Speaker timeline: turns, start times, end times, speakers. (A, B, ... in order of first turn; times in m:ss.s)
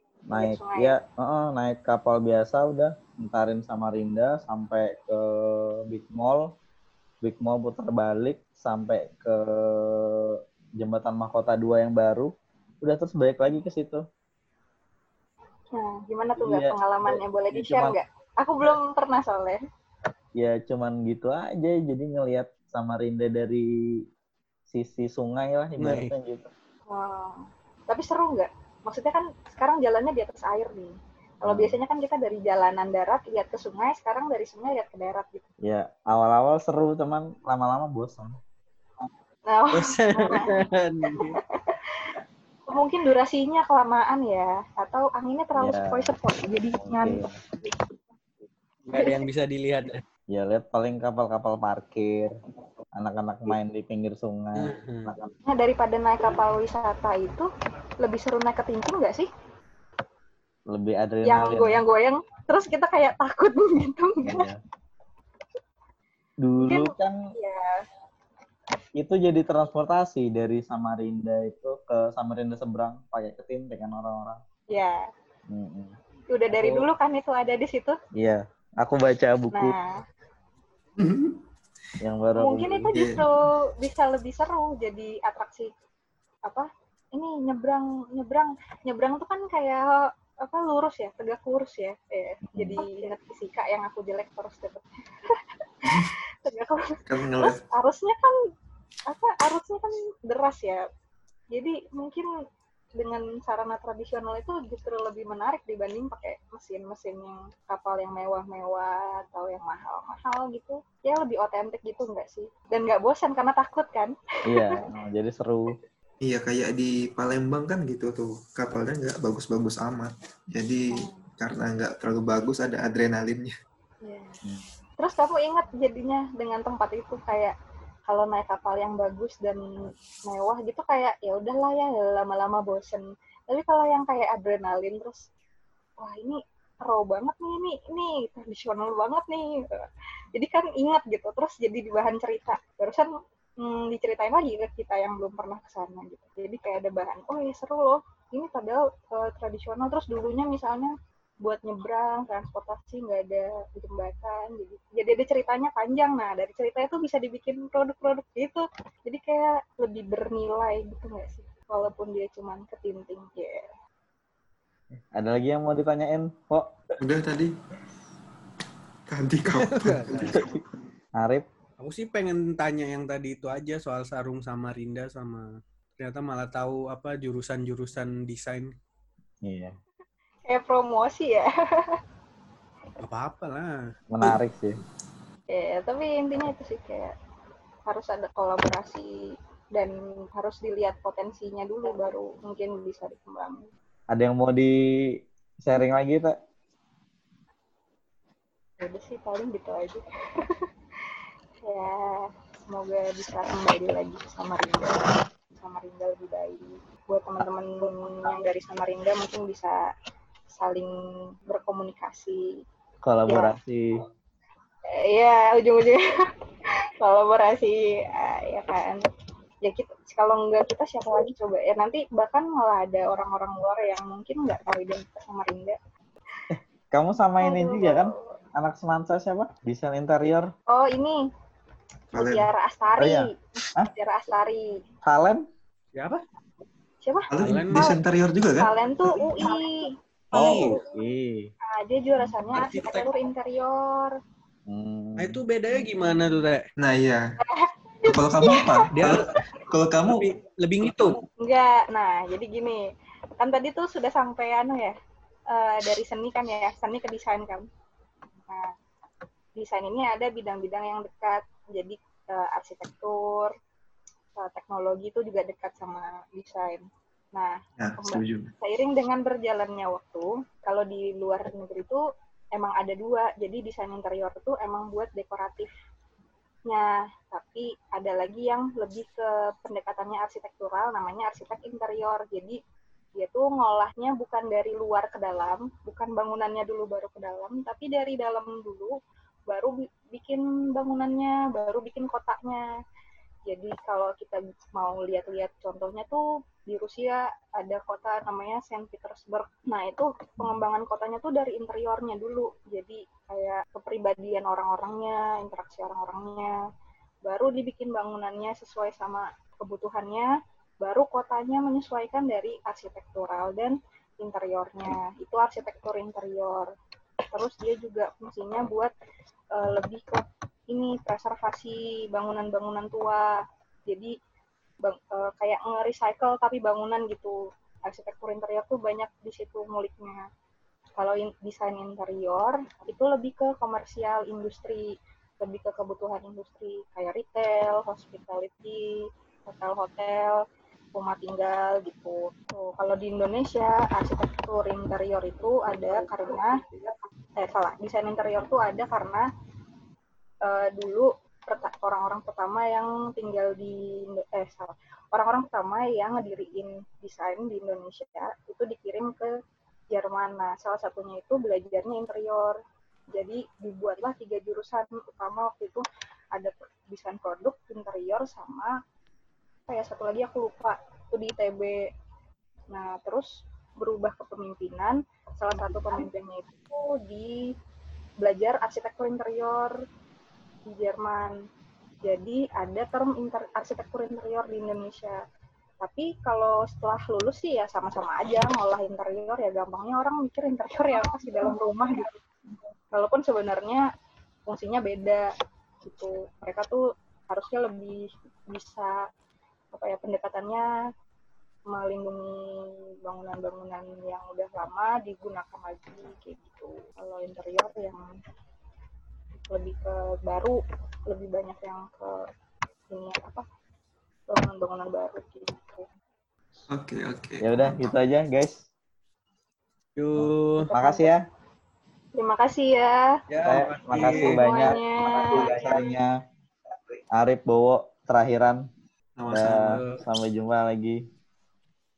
0:00.3-0:06.5 A
0:00.3-0:01.0 B
0:07.2-0:12.3 A
0:12.8-0:14.0 A
0:15.7-0:19.6 B
0:16.4-0:17.2 A
0:17.5-0:18.0 C
0:20.4-0:24.0 A
0:24.7-0:26.5 A
0:25.8-0:26.1 C
0:26.9-0:35.5 B
0:31.4-0:31.8 A
0:35.6-0:38.4 A
0:39.5-0:42.2 B
0:39.7-0:41.4 C
0:42.7-0:48.0 B
0:45.6-0:46.1 A
0:46.8-0:47.3 A
0:48.9-0:50.0 C
0:50.3-0:52.3 A
0:53.0-0:55.3 A
0:54.6-0:55.1 C
0:55.4-0:57.5 B
0:58.0-0:59.3 B
1:00.7-1:01.8 A
1:01.2-1:04.5 B
1:04.2-1:04.6 A
1:06.4-1:07.2 A
1:06.6-1:07.8 B
1:09.0-1:14.4 A
1:14.7-1:15.1 B
1:15.5-1:15.9 A
1:16.3-1:18.0 B
1:16.5-1:16.9 A
1:18.2-1:19.8 A
1:19.5-1:20.0 B
1:21.0-1:21.4 D
1:22.0-1:22.9 A
1:22.4-1:25.7 B
1:22.9-1:23.3 D
1:26.4-1:38.4 B
1:32.5-1:32.8 A
1:35.8-1:36.1 D
1:37.1-1:37.6 D
1:39.1-1:40.8 B
1:41.5-1:42.3 B
1:43.0-1:54.8 B
1:54.5-1:55.8 A
1:56.2-2:03.5 D
2:00.9-2:01.3 B
2:04.0-2:04.4 B
2:05.0-2:07.6 B
2:08.1-2:09.7 B
2:10.3-2:15.3 B
2:16.0-2:43.7 B
2:44.9-2:46.8 A
2:47.0-2:47.5 D
2:49.1-2:50.6 D
2:49.6-2:50.5 C
2:51.2-2:51.4 A
2:51.8-2:55.5 C
2:56.0-2:58.7 C
2:59.4-2:59.7 A
3:00.5-3:02.0 B
3:03.0-3:04.3 C
3:04.1-3:04.8 A
3:05.5-3:07.1 B
3:07.9-3:09.1 B
3:09.7-3:13.7 B
3:14.1-3:14.8 A
3:15.6-3:16.3 A
3:18.8-3:20.6 B
3:21.6-3:29.8 B
3:30.5-3:30.9 B
3:31.5-3:32.4 B
3:33.0-3:34.0 A
3:33.3-3:33.6 B
3:34.9-3:36.0 B
3:37.0-3:39.0 B
3:39.6-3:45.8 B
3:46.5-3:50.5 A
3:47.4-3:48.4 B
3:50.7-3:51.3 B
3:52.1-3:53.3 B
3:52.1-3:52.5 D
3:53.0-3:53.9 A
3:53.9-3:54.8 B
3:55.0-3:55.4 A
3:56.0-3:56.2 C
3:57.0-3:58.0 B
3:57.3-3:58.7 D
3:57.4-3:57.9 C
3:58.6-4:00.8 B
4:00.3-4:01.5 A
4:00.3-4:00.8 C
4:01.6-4:04.2 B
4:02.5-4:03.1 C
4:04.7-4:05.4 A
4:05.2-4:06.6 C
4:06.8-4:07.2 D
4:07.4-4:08.8 B
4:08.1-4:10.2 D
4:08.9-4:09.3 C
4:10.0-4:11.2 C
4:11.4-4:12.8 B
4:13.4-4:15.0 B
4:15.5-4:17.7 B
4:18.4-4:18.7 B
4:19.6-4:23.5 B
4:24.4-4:32.0 B
4:27.8-4:28.5 D
4:32.5-4:35.7 B
4:36.7-4:42.6 B
4:43.2-4:49.0 B
4:49.5-4:52.7 B
4:53.5-5:06.6 B
5:07.2-5:10.3 B
5:10.8-5:16.7 B
5:17.3-5:18.9 B
5:19.5-5:23.4 B
5:23.9-5:24.2 B
5:24.8-5:30.2 B
5:31.0-5:40.4 B
5:40.9-5:49.3 B
5:50.4-5:59.3 B
5:59.9-6:02.6 B
6:03.1-6:08.7 B
6:09.7-6:11.8 B
6:12.7-6:17.5 B
6:18.2-6:19.8 B
6:20.7-6:21.4 B
6:22.0-6:25.2 B
6:25.8-6:32.2 B
6:32.9-6:33.8 B
6:34.5-6:35.3 B
6:35.8-6:39.0 B
6:39.7-6:40.7 B
6:41.7-6:48.1 B
6:49.4-6:52.3 B
6:52.9-6:53.4 B
6:54.3-6:55.9 B
6:56.7-6:57.8 D
6:57.4-6:58.7 A
7:00.0-7:00.7 C
7:00.2-7:01.2 A
7:00.6-7:01.1 B
7:02.2-7:03.1 B
7:03.3-7:04.5 C
7:03.4-7:06.1 A
7:04.0-7:05.7 B
7:05.3-7:05.8 D
7:07.2-7:08.6 A
7:09.2-7:09.7 D
7:09.3-7:11.0 A
7:09.4-7:10.0 C